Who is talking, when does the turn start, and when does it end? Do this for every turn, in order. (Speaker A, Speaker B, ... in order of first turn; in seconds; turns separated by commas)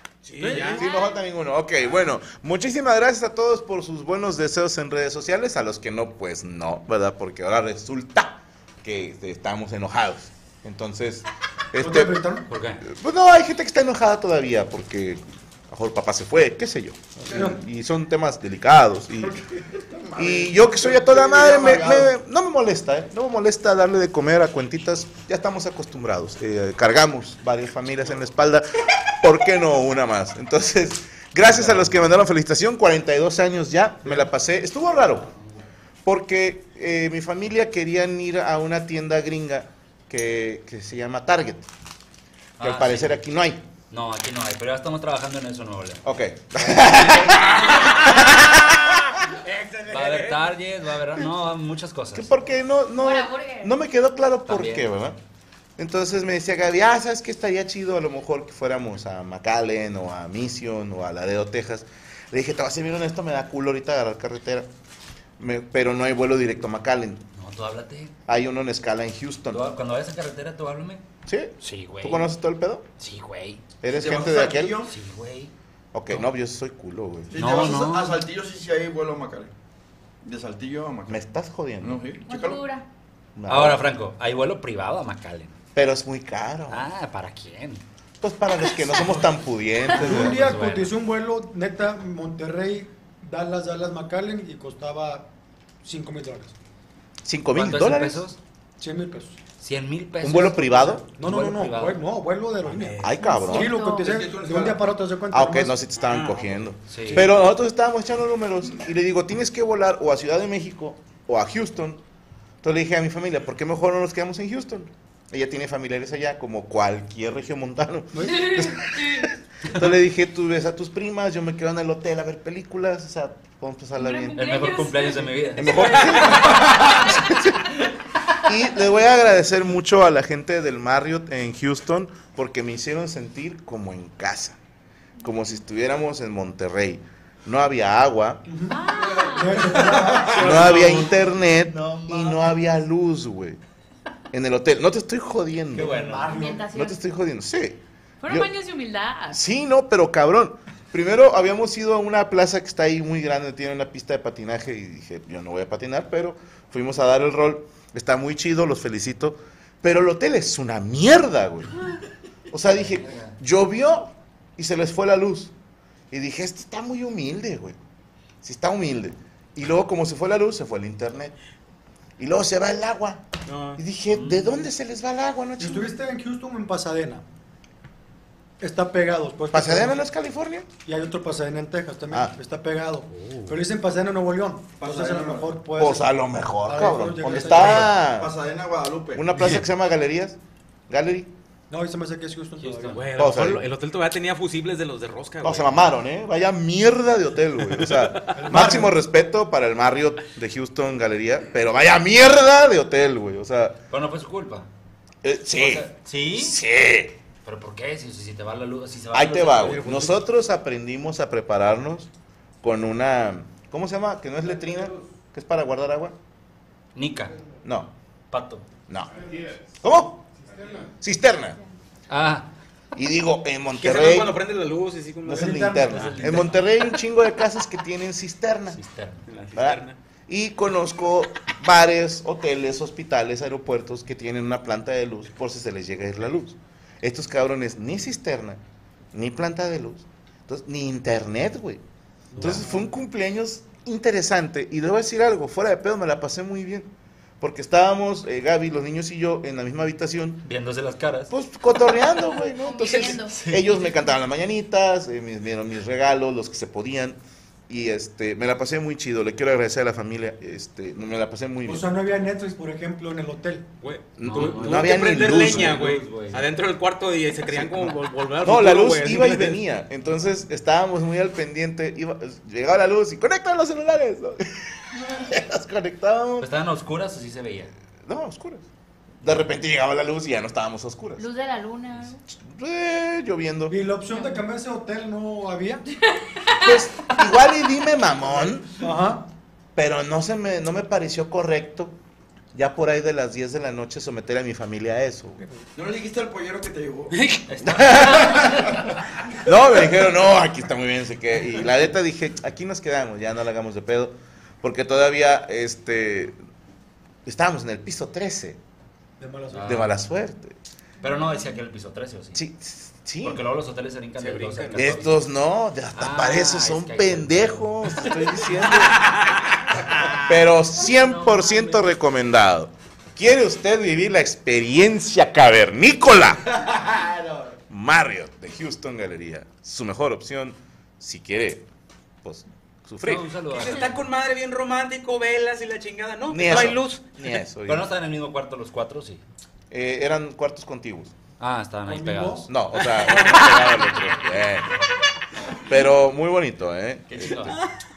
Speaker A: 0.2-0.8, Speaker B: 0.4-0.8, Speaker C: 0.5-12.2, Speaker D: 0.8-1.2, Speaker E: 11.8-12.5, Speaker F: 12.5-12.8, Speaker C: 12.8-19.4, Speaker E: 17.3-17.6, Speaker B: 19.2-22.1, Speaker C: 20.1-35.3, Speaker F: 31.4-32.1, Speaker C: 36.0-41.7, Speaker F: 42.6-43.2, Speaker C: 42.6-43.6, Speaker F: 43.9-46.0, Speaker C: 46.0-49.0, Speaker F: 46.8-47.8, Speaker A: 49.3-50.4, Speaker F: 49.9-52.4, Speaker C: 52.1-55.2, Speaker G: 53.0-53.7, Speaker F: 54.5-54.9, Speaker C: 55.8-64.7, Speaker C: 65.4-67.2, Speaker F: 67.3-68.1, Speaker C: 68.3-69.6, Speaker F: 69.5-71.0, Speaker C: 71.2-72.8, Speaker F: 71.6-72.3, Speaker F: 73.0-73.6, Speaker C: 73.8-74.8, Speaker B: 73.9-74.9, Speaker F: 74.9-75.5, Speaker C: 75.9-77.5, Speaker B: 77.3-79.5, Speaker F: 77.3-78.2, Speaker B: 80.2-81.2, Speaker C: 81.1-82.0, Speaker B: 81.8-82.6, Speaker G: 82.3-82.8, Speaker D: 82.3-82.8, Speaker C: 83.3-83.8, Speaker F: 83.5-85.5, Speaker C: 85.7-86.9, Speaker F: 86.7-87.8, Speaker C: 88.2-90.5, Speaker F: 89.9-90.9, Speaker E: 89.9-95.3, Speaker E: 95.8-96.5, Speaker C: 97.2-98.2, Speaker F: 97.5-98.4, Speaker E: 98.8-99.4, Speaker F: 99.6-102.0, Speaker C: 100.2-101.0, Speaker E: 101.2-105.8, Speaker A: 102.7-103.1, Speaker C: 103.0-103.8, Speaker G: 103.2-104.1, Speaker B: 104.0-104.8, Speaker C: 105.3-112.0, Speaker A: 106.0-106.5, Speaker F: 106.9-107.3, Speaker C: 112.6-124.5, Speaker E: 118.1-118.5, Speaker D: 118.5-119.2, Speaker D: 123.9-125.9, Speaker F: 124.3-126.5, Speaker C: 125.5-127.7, Speaker A: 125.9-126.2, Speaker D: 126.8-127.2, Speaker C: 128.4-134.6, Speaker C: 135.2-138.4, Speaker E: 138.5-141.1, Speaker D: 138.7-139.7, Speaker C: 140.2-143.6, Speaker F: 140.3-142.5, Speaker C: 144.3-146.0, Speaker E: 145.7-146.7, Speaker F: 145.7-146.5, Speaker G: 146.3-147.0, Speaker C: 146.7-148.5, Speaker D: 148.2-149.4, Speaker C: 149.3-161.8, Speaker C: 162.5-165.5, Speaker F: 162.7-163.3, Speaker C: 166.1-167.8, Speaker C: 168.4-171.3, Speaker C: 172.2-173.2, Speaker A: 173.4-173.8, Speaker C: 173.7-175.9, Speaker F: 174.1-174.6, Speaker E: 175.6-177.2, Speaker E: 178.6-180.0, Speaker C: 179.5-180.7, Speaker E: 180.8-186.1, Speaker B: 184.8-185.6, Speaker C: 185.8-188.3, Speaker E: 186.6-188.0, Speaker B: 187.3-189.3, Speaker C: 189.1-190.4, Speaker C: 190.9-191.3, Speaker E: 191.7-193.1, Speaker F: 192.6-193.0, Speaker A: 192.9-195.8, Speaker C: 193.2-193.7, Speaker C: 195.4-203.8, Speaker E: 198.3-198.9, Speaker F: 203.9-204.7, Speaker C: 205.2-207.2, Speaker F: 205.5-206.6, Speaker F: 207.4-210.1, Speaker C: 209.1-212.1, Speaker A: 209.7-210.1, Speaker C: 212.6-216.2, Speaker F: 216.9-217.3, Speaker C: 217.6-217.9, Speaker F: 218.3-218.6, Speaker C: 218.9-220.2, Speaker C: 221.0-221.6, Speaker F: 222.1-222.5, Speaker C: 222.9-224.4, Speaker A: 223.8-226.3, Speaker C: 225.2-228.8, Speaker E: 225.3-226.3, Speaker F: 225.9-226.6, Speaker F: 228.7-229.3, Speaker A: 229.3-229.9, Speaker C: 229.5-238.6, Speaker C: 239.1-241.8, Speaker E: 242.3-242.8, Speaker F: 242.4-242.7, Speaker C: 242.4-250.5, Speaker F: 250.4-251.3, Speaker C: 251.3-261.9, Speaker G: 252.6-253.4, Speaker F: 253.3-253.6, Speaker E: 261.6-263.7, Speaker A: 263.8-269.6, Speaker C: 264.2-265.9, Speaker F: 264.2-266.5, Speaker C: 267.5-276.5, Speaker F: 276.4-277.7, Speaker C: 278.1-278.6, Speaker C: 279.2-281.3, Speaker G: 281.2-282.2, Speaker C: 282.3-283.7, Speaker E: 283.7-285.8, Speaker C: 286.6-288.7, Speaker E: 288.8-289.3, Speaker C: 289.7-292.0, Speaker C: 292.5-295.4, Speaker B: 295.7-297.1, Speaker F: 297.4-298.8, Speaker C: 297.6-298.7, Speaker C: 299.4-306.4, Speaker C: 307.2-308.6, Speaker E: 309.2-309.9, Speaker F: 309.5-309.9, Speaker C: 309.6-310.6, Speaker F: 311.0-312.4, Speaker C: 312.3-313.4, Speaker F: 313.2-315.2, Speaker A: 314.2-315.0, Speaker C: 314.7-319.1, Speaker F: 315.9-318.1, Speaker A: 318.8-319.5, Speaker C: 320.1-326.4, Speaker F: 320.8-321.9, Speaker B: 326.6-327.5, Speaker C: 327.7-331.7, Speaker C: 332.2-333.3, Speaker F: 333.0-334.0, Speaker A: 333.5-337.0, Speaker C: 336.3-337.9, Speaker F: 337.6-339.2, Speaker C: 339.7-341.1, Speaker F: 341.4-342.5, Speaker E: 341.9-343.7, Speaker C: 342.5-344.7, Speaker C: 345.6-347.6, Speaker F: 347.1-347.6